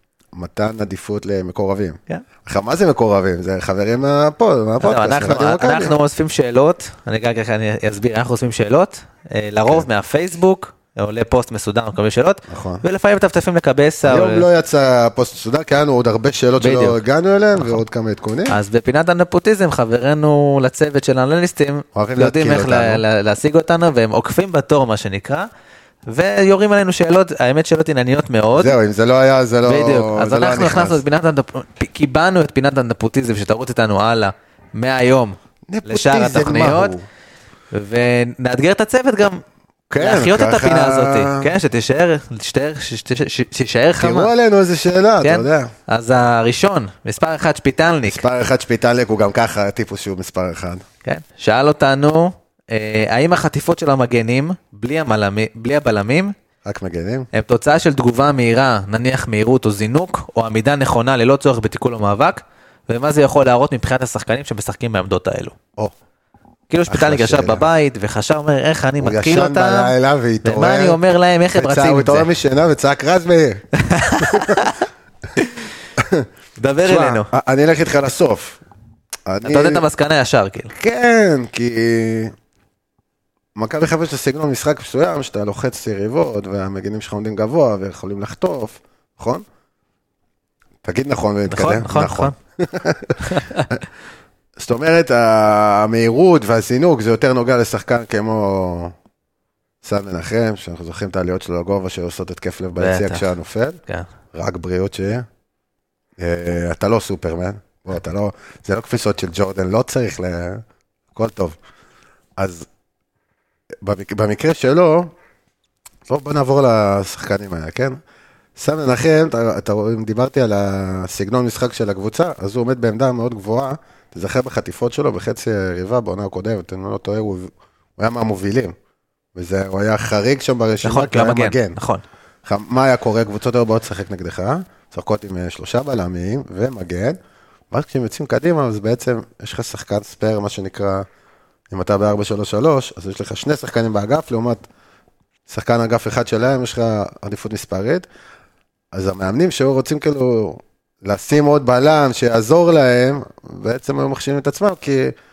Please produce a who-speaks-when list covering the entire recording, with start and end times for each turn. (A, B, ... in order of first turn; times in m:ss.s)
0:00.3-0:06.0 A
0:04.8-0:14.4 B
0:12.5-0:12.8 A
0:14.0-0:18.6 A
0:16.6-0:17.0 B
0:18.5-0:25.5 B
0:21.9-0:23.0 A
0:26.1-0:28.7 B
0:28.5-0:31.0 A
0:29.6-0:36.9 B
0:35.7-0:37.0 A
0:37.7-0:39.4 B
0:39.9-0:41.5 A
0:40.0-0:44.3 B
0:44.0-0:45.7 A
0:45.2-0:48.2 B
0:48.0-0:50.8 A
0:51.0-0:56.3 B
0:56.6-0:57.3 A
0:57.3-1:05.6 B
1:06.7-1:09.9 B
1:06.9-1:07.7 A
1:09.0-1:11.0 A
1:10.4-1:12.3 B
1:11.5-1:14.8 A
1:13.8-1:14.8 B
1:15.4-1:15.7 B
1:16.0-1:16.3 A
1:16.6-1:17.3 B
1:16.8-1:18.6 A
1:19.3-1:19.8 A
1:19.4-1:20.7 B
1:20.7-1:22.3 A
1:23.6-1:29.4 A
1:30.8-1:33.8 A
1:31.5-1:32.3 B
1:33.2-1:33.6 B
1:34.6-1:38.9 A
1:39.8-1:43.8 A
1:42.8-1:43.3 B
1:44.3-1:45.2 A
1:46.2-1:50.6 A
1:51.1-1:51.6 A
1:52.4-1:52.7 A
1:53.8-1:55.1 A
1:56.1-1:58.0 A
1:58.6-2:08.7 A
2:09.3-2:11.8 A
2:10.8-2:12.0 B
2:12.4-2:17.2 A
2:17.7-2:21.0 A
2:21.7-2:24.7 A
2:25.5-2:28.0 A
2:28.9-2:35.1 A